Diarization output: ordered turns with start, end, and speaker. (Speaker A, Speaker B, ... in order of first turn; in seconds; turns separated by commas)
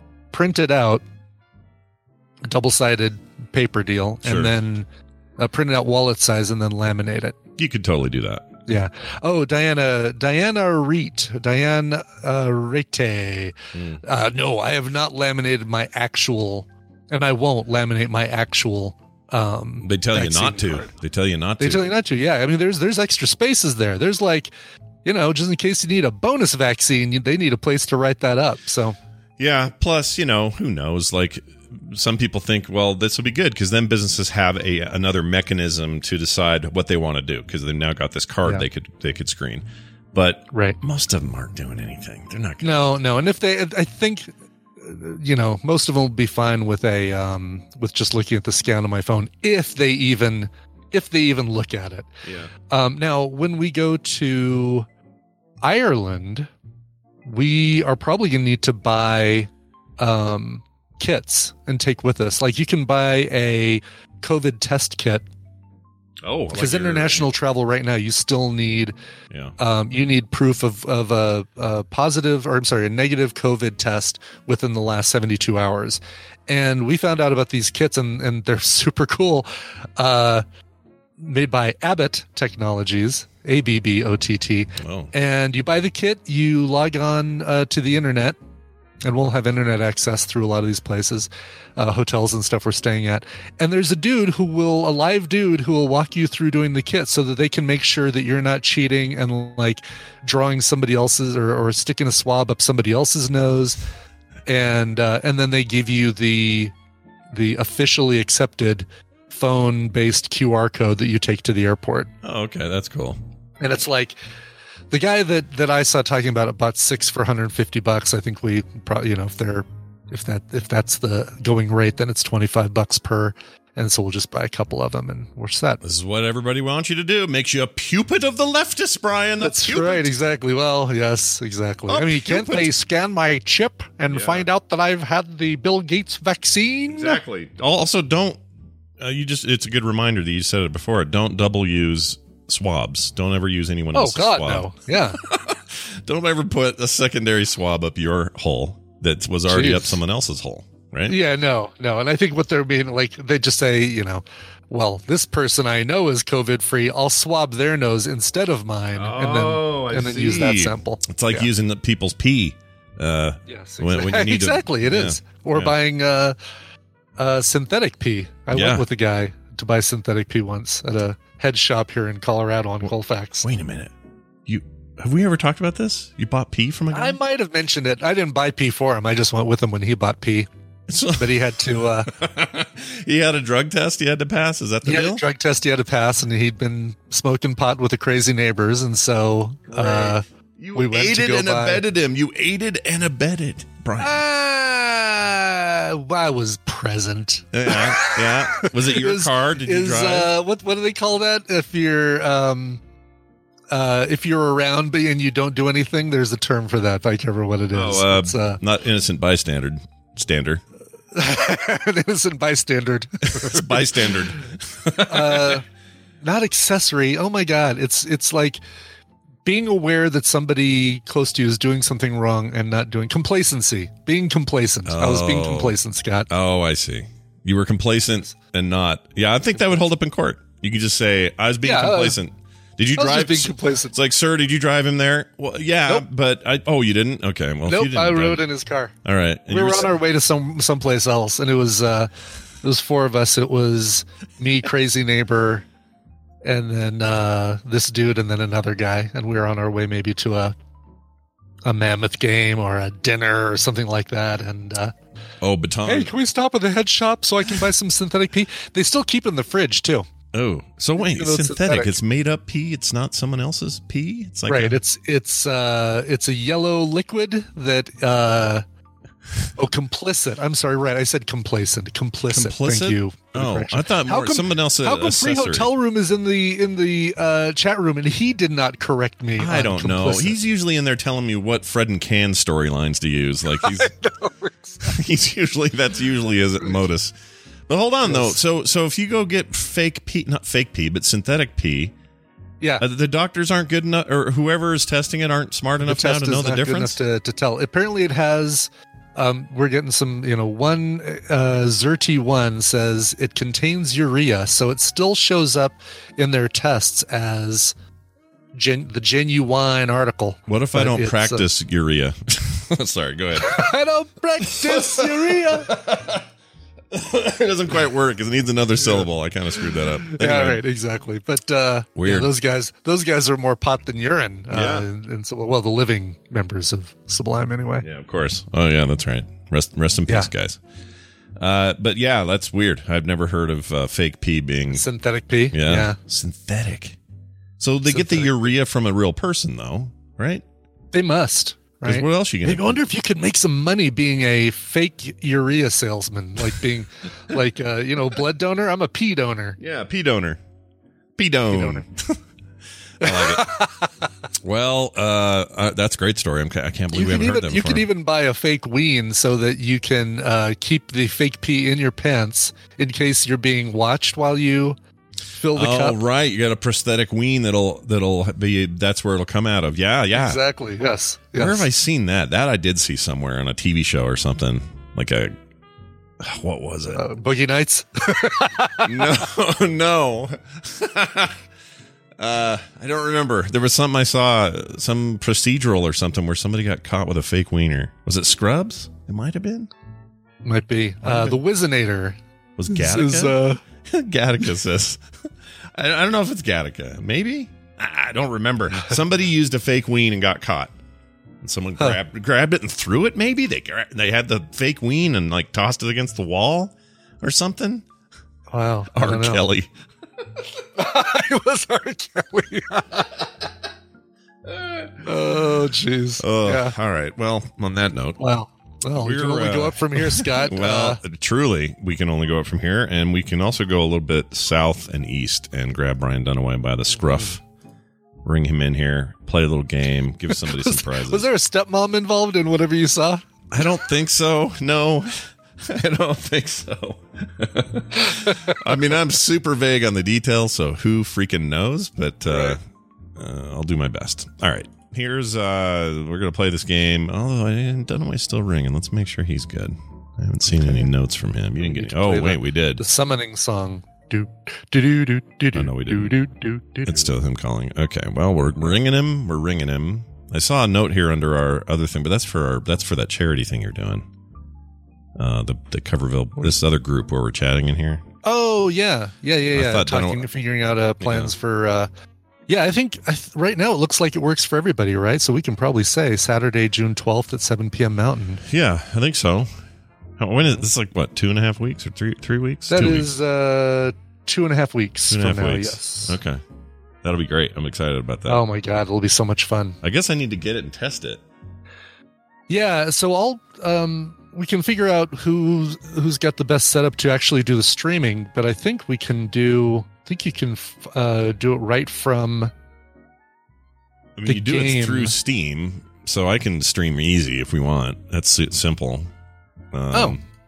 Speaker A: 0.3-1.0, Speaker A: 2.4-4.9, Speaker B: 4.2-4.5, Speaker A: 5.4-7.3, Speaker B: 7.6-8.5, Speaker A: 8.7-20.9, Speaker B: 13.7-14.0, Speaker B: 19.8-21.9, Speaker A: 21.6-24.5, Speaker A: 25.0-29.0, Speaker B: 29.4-42.9, Speaker A: 40.5-40.8, Speaker A: 42.6-52.1, Speaker B: 52.2-52.5, Speaker A: 52.7-54.9, Speaker A: 55.6-56.5, Speaker A: 57.2-65.2, Speaker B: 66.2-67.3, Speaker A: 66.5-68.9, Speaker A: 69.6-80.4, Speaker A: 81.2-88.4, Speaker B: 84.8-85.1, Speaker A: 89.0-103.8, Speaker A: 104.5-106.7, Speaker A: 107.3-112.1, Speaker B: 112.2-113.2, Speaker A: 113.6-114.2, Speaker A: 114.9-125.8, Speaker B: 125.8-130.1, Speaker A: 129.4-137.2, Speaker B: 131.9-132.7, Speaker B: 134.1-134.4, Speaker B: 136.9-138.4, Speaker B: 139.0-151.2, Speaker A: 143.9-145.2, Speaker A: 149.5-150.0, Speaker A: 151.1-161.5, Speaker B: 158.9-165.7, Speaker A: 163.5-166.3, Speaker A: 167.2-173.5, Speaker B: 168.5-168.8, Speaker B: 173.4-173.9, Speaker B: 174.4-177.2, Speaker A: 176.9-180.5, Speaker B: 180.9-181.3, Speaker A: 181.2-182.1, Speaker B: 182.1-185.2, Speaker A: 184.8-190.2, Speaker B: 189.7-194.2, Speaker A: 190.7-191.8, Speaker A: 194.0-198.3, Speaker B: 197.5-200.3, Speaker A: 198.9-202.8, Speaker A: 203.7-208.6, Speaker B: 207.7-210.6, Speaker A: 211.1-213.9, Speaker B: 213.3-215.6, Speaker A: 215.1-215.6, Speaker A: 216.2-218.6, Speaker A: 219.4-226.3, Speaker B: 224.8-225.8, Speaker B: 226.3-238.4, Speaker A: 231.6-232.2, Speaker A: 232.9-233.9, Speaker A: 237.7-238.9, Speaker B: 239.0-240.0, Speaker A: 239.5-242.1, Speaker A: 242.6-245.6, Speaker A: 246.4-250.5, Speaker A: 251.6-254.9, Speaker B: 255.4-256.1, Speaker A: 255.8-260.1, Speaker B: 260.3-264.8, Speaker A: 261.0-261.9, Speaker A: 264.5-268.6, Speaker A: 269.6-280.4, Speaker B: 272.3-275.7, Speaker B: 279.4-283.9, Speaker A: 283.6-284.9, Speaker B: 284.9-287.1, Speaker B: 287.7-291.9, Speaker A: 288.0-288.4, Speaker B: 292.8-297.0, Speaker A: 295.8-307.7, Speaker A: 308.5-311.5, Speaker B: 310.5-313.7, Speaker A: 313.4-315.7, Speaker B: 314.6-316.2, Speaker B: 316.9-320.6, Speaker A: 318.8-319.1, Speaker A: 320.1-327.8, Speaker B: 322.0-322.3, Speaker B: 324.5-324.9, Speaker B: 327.8-330.6, Speaker B: 331.4-334.8, Speaker A: 334.7-336.0, Speaker B: 335.5-337.0, Speaker B: 337.6-340.4, Speaker A: 337.9-338.5, Speaker A: 340.9-349.6, Speaker B: 341.8-342.8, Speaker B: 349.6-350.4, Speaker B: 351.2-351.9, Speaker A: 351.5-351.9, Speaker B: 353.0-353.4, Speaker A: 353.0-353.9, Speaker B: 354.4-357.9, Speaker A: 356.9-364.8, Speaker A: 365.3-366.0, Speaker B: 365.5-370.4, Speaker A: 370.1-371.7, Speaker B: 371.4-375.3, Speaker B: 376.2-377.0, Speaker A: 376.9-379.0, Speaker B: 378.9-381.4, Speaker B: 382.2-389.7, Speaker A: 390.4-392.2, Speaker B: 391.0-391.4, Speaker B: 392.6-393.3, Speaker A: 392.7-393.6, Speaker B: 393.9-395.0, Speaker B: 395.7-400.7, Speaker B: 401.4-407.8, Speaker A: 408.5-409.4, Speaker B: 408.9-409.7, Speaker A: 410.8-413.1, Speaker B: 414.6-414.9, Speaker A: 415.0-416.7, Speaker B: 416.2-418.2, Speaker A: 418.2-421.0, Speaker B: 419.0-427.4, Speaker A: 426.9-427.3, Speaker B: 428.2-431.3, Speaker A: 430.3-433.2, Speaker B: 433.5-435.1, Speaker B: 435.6-442.6, Speaker A: 442.3-442.6, Speaker B: 443.2-452.8, Speaker A: 450.5-450.9, Speaker A: 451.6-457.1, Speaker B: 455.5-456.1, Speaker B: 456.9-464.0, Speaker B: 465.2-468.0, Speaker A: 468.2-471.9, Speaker B: 469.5-470.3, Speaker B: 471.0-471.3, Speaker A: 472.5-478.4, Speaker B: 478.4-479.5, Speaker B: 480.2-483.1, Speaker A: 482.7-486.2, Speaker B: 485.1-486.4, Speaker B: 487.0-488.4, Speaker A: 488.3-489.8, Speaker B: 489.8-491.2, Speaker A: 492.5-502.5, Speaker B: 504.1-509.1, Speaker A: 504.2-505.1, Speaker B: 509.7-510.2, Speaker A: 509.9-510.2